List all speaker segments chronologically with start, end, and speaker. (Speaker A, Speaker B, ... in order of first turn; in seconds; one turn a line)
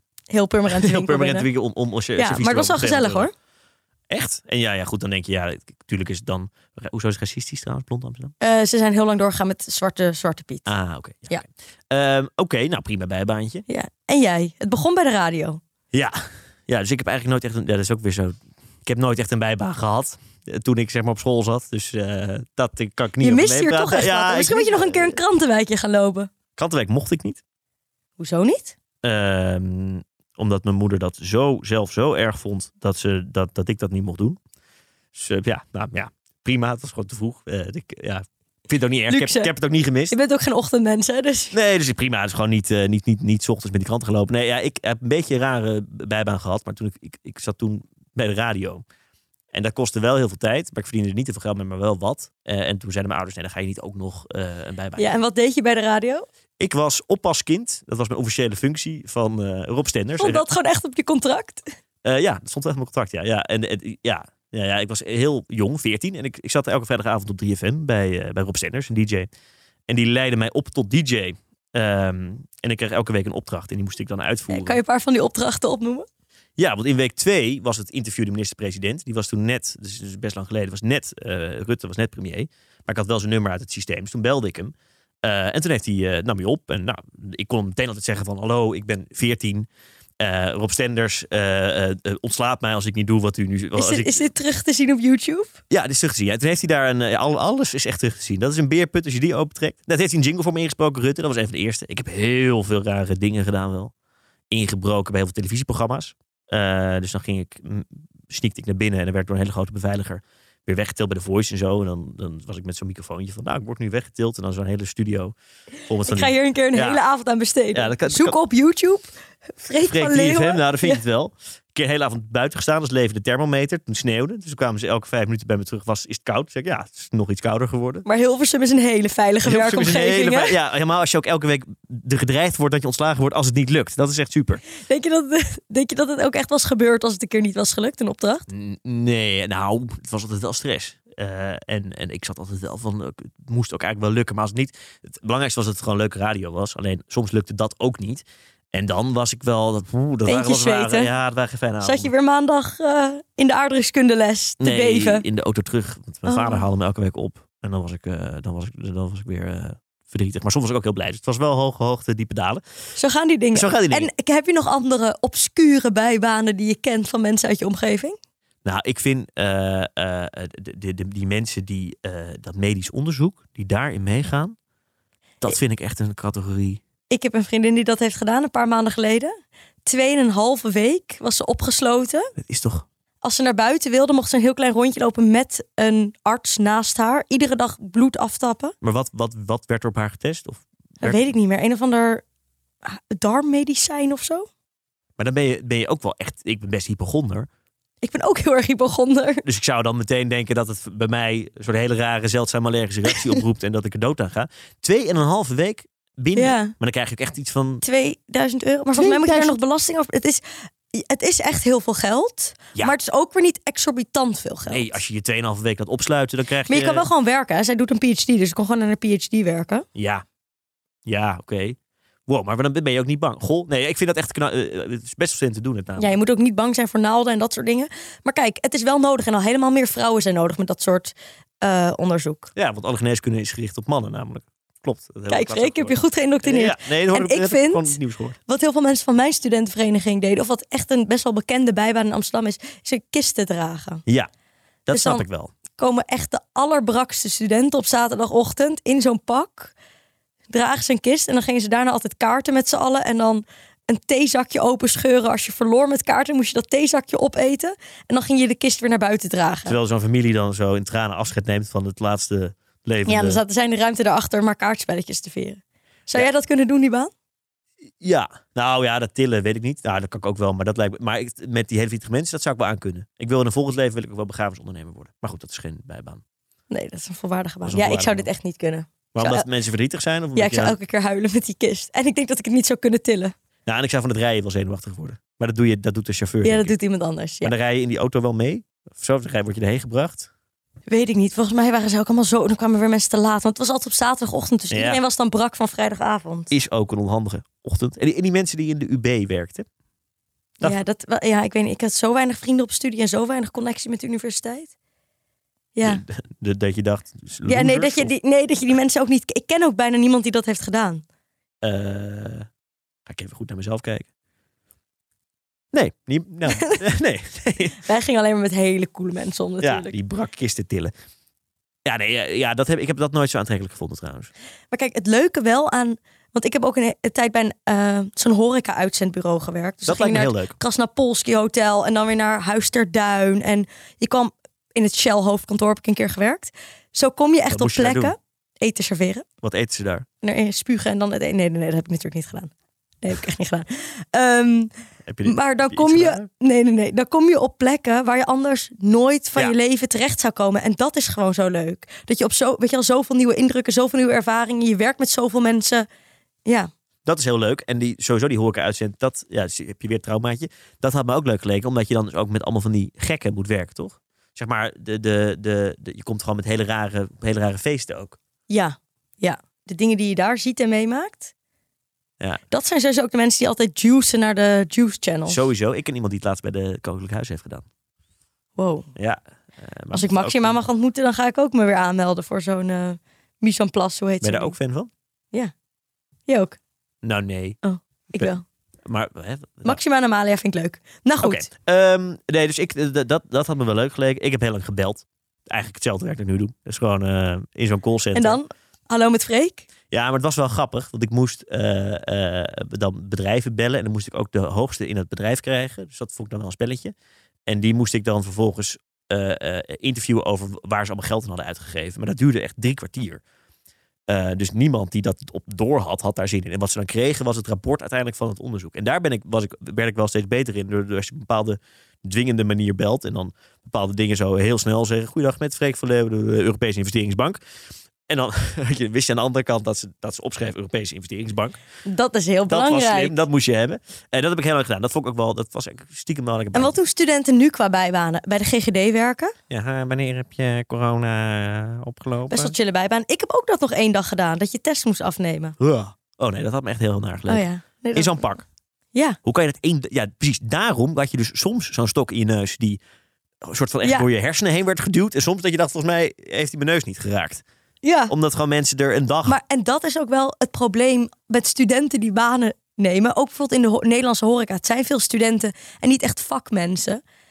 Speaker A: 0.3-1.5
Speaker B: 0.7-3.3
Speaker A: 2.2-3.3
Speaker B: 4.1-8.3
Speaker A: 8.4-10.7
Speaker B: 10.7-13.7
Speaker A: 13.7-15.6
Speaker B: 15.9-25.2
Speaker A: 23.2-26.3
Speaker B: 26.6-27.4
Speaker A: 28.2-28.8
Speaker B: 29.0-34.4
Speaker B: 35.1-40.2
Speaker A: 39.1-39.5
Speaker A: 40.1-41.5
Speaker B: 41.5-48.8
Speaker B: 49.5-55.1
Speaker A: 55.0-56.2
Speaker B: 56.6-60.5
Speaker A: 60.2-61.7
Speaker B: 62.0-69.3
Speaker B: 69.9-74.8
Speaker A: 74.5-76.1
Speaker B: 76.6-89.7
Speaker B: 90.2-94.2
Speaker A: 93.8-95.5
Speaker B: 95.7-103.9
Speaker B: 104.5-115.3
Speaker B: 115.9-117.0
Speaker A: 116.1-119.0
Speaker B: 117.7-118.4
Speaker A: 119.6-121.0
Speaker B: 119.8-128.1
Speaker A: 128.1-130.6
Speaker B: 129.4-134.6
Speaker A: 134.8-138.5
Speaker B: 138.5-152.1
Speaker A: 150.3-151.1
Speaker A: 151.8-155.2
Speaker B: 154.6-162.6
Speaker A: 156.3-156.6
Speaker A: 163.0-168.2
Speaker B: 163.5-164.1
Speaker B: 168.7-174.6
Speaker B: 175.4-176.8
Speaker A: 177.1-179.3
Speaker A: 179.8-182.3
Speaker B: 182.4-182.8
Speaker A: 183.2-188.8
Speaker B: 188.8-191.3
Speaker A: 191.0-192.2
Speaker A: 192.8-194.5
Speaker B: 195.2-197.5
Speaker A: 198.0-199.4
Speaker B: 199.4-207.8
Speaker A: 206.4-206.7
Speaker A: 207.8-214.9
Speaker B: 209.0-209.6
Speaker B: 214.7-217.1
Speaker A: 216.7-219.9
Speaker B: 219.9-220.2
Speaker B: 221.1-226.1
Speaker A: 226.0-232.5
Speaker B: 232.6-238.4
Speaker A: 235.3-244.0
Speaker B: 244.9-245.5
Speaker A: 244.9-249.7
Speaker A: 250.5-259.8
Speaker B: 259.6-263.4
Speaker A: 263.1-267.1
Speaker B: 268.0-276.2
Speaker A: 276.7-279.5
Speaker B: 277.6-278.3
Speaker B: 279.1-280.8
Speaker A: 280.4-283.4
Speaker B: 283.7-286.7
Speaker A: 286.4-287.5
Speaker B: 287.4-290.3
Speaker A: 290.9-296.5
Speaker B: 294.7-295.0
Speaker B: 296.5-299.7
Speaker A: 300.6-304.7
Speaker A: 305.8-306.0
Speaker B: 305.9-308.1
Speaker A: 307.5-311.0
Speaker B: 311.6-312.5
Speaker B: 313.1-314.1
Speaker B: 315.7-317.8
Speaker A: 316.5-316.8
Speaker A: 317.8-320.0
Speaker B: 319.6-320.9
Speaker B: 321.9-324.3
Speaker A: 324.7-339.3
Speaker B: 329.9-330.5
Speaker B: 337.5-338.1
Speaker B: 339.4-340.1
Speaker A: 340.2-344.7
Speaker B: 345.1-346.3
Speaker A: 345.2-355.9
Speaker A: 356.5-356.7
Speaker B: 357.1-368.2
Speaker A: 368.5-371.3
Speaker A: 372.5-375.4
Speaker B: 375.3-377.7
Speaker A: 378.6-378.9
Speaker B: 379.0-380.6
Speaker A: 379.9-384.5
Speaker B: 384.2-384.9
Speaker A: 386.3-386.6
Speaker B: 387.0-387.6
Speaker A: 387.6-388.4
Speaker B: 388.9-389.8
Speaker A: 389.6-391.5
Speaker B: 391.2-398.4
Speaker A: 398.1-399.7
Speaker B: 399.9-406.9
Speaker B: 407.5-413.2
Speaker B: 414.1-427.4
Speaker B: 428.1-431.6
Speaker A: 431.9-433.2
Speaker B: 432.5-436.8
Speaker A: 436.5-439.3
Speaker B: 439.5-442.5
Speaker A: 442.3-445.6
Speaker B: 445.6-448.4
Speaker A: 447.3-448.2
Speaker B: 449.2-452.8
Speaker B: 453.4-457.4
Speaker A: 457.8-458.1
Speaker B: 458.1-459.4
Speaker A: 459.3-467.0